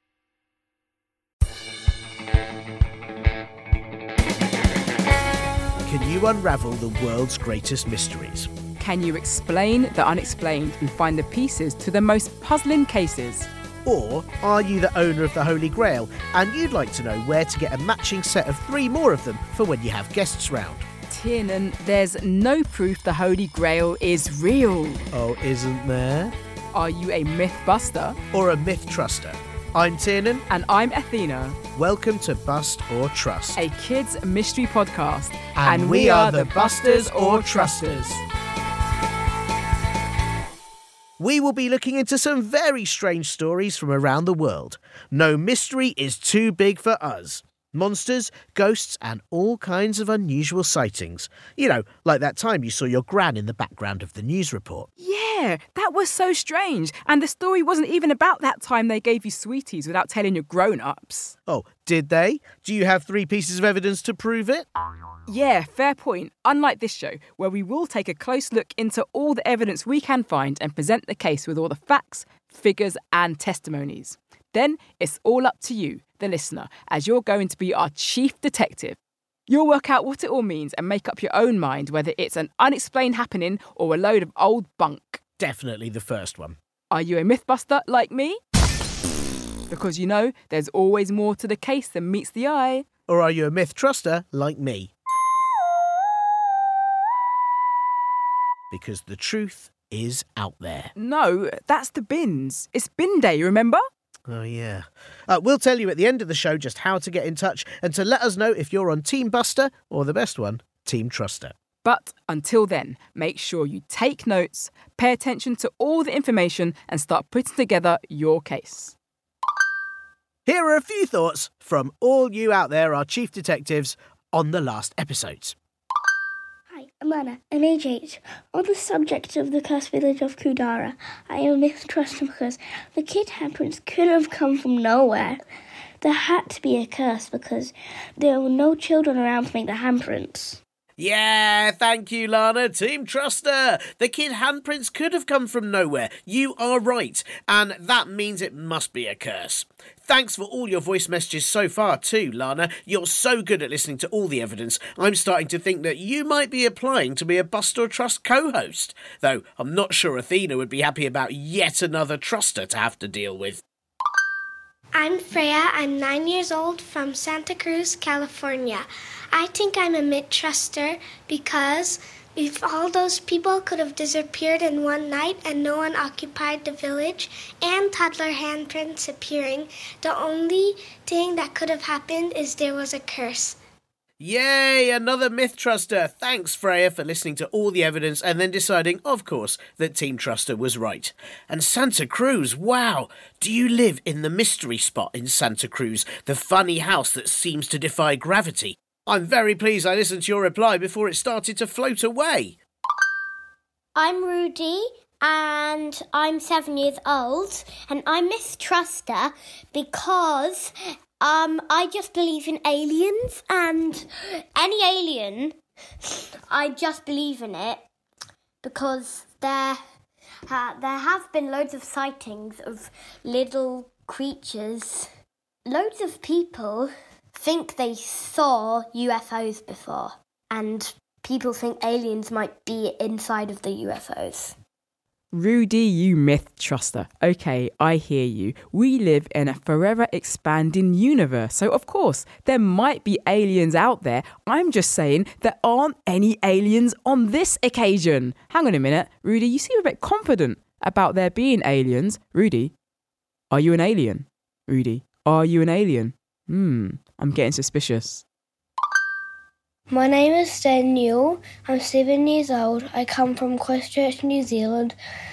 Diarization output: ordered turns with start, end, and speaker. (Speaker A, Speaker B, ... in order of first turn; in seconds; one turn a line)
Speaker A: 5.8-8.5
Speaker B: 8.8-13.5
Speaker A: 13.8-20.8
Speaker B: 21.1-25.0
Speaker A: 25.1-26.3
Speaker B: 26.7-28.2
Speaker A: 28.3-30.4
Speaker B: 30.5-31.6
Speaker A: 31.7-33.6
Speaker B: 33.5-38.2
Speaker A: 35.5-38.2
Speaker A: 41.2-54.9
Speaker B: 55.0-61.3
Speaker A: 61.5-64.7
Speaker B: 65.3-79.0
Speaker B: 79.5-85.2
Speaker A: 85.4-86.6
Speaker B: 86.9-88.4
Speaker B: 89.7-92.8
Speaker A: 93.1-94.9
Speaker A: 98.7-100.9
Speaker B: 101.0-103.8
Speaker A: 104.3-111.5
Speaker B: 111.8-118.9
Speaker A: 120.5-125.5
Speaker C: 126.8-135.4
Speaker C: 136.0-140.6
Speaker A: 141.0-163.6
Speaker D: 164.9-183.6
Speaker A: 184.2-202.6
Speaker E: 203.9-210.7
Speaker E: 211.2-215.6
Speaker E: 216.5-217.8
Speaker E: 218.6-219.8
Speaker E: 220.5-225.1
Speaker E: 225.7-234.6
Speaker B: 235.3-252.7
Speaker B: 253.5-258.2
Speaker C: 259.9-264.9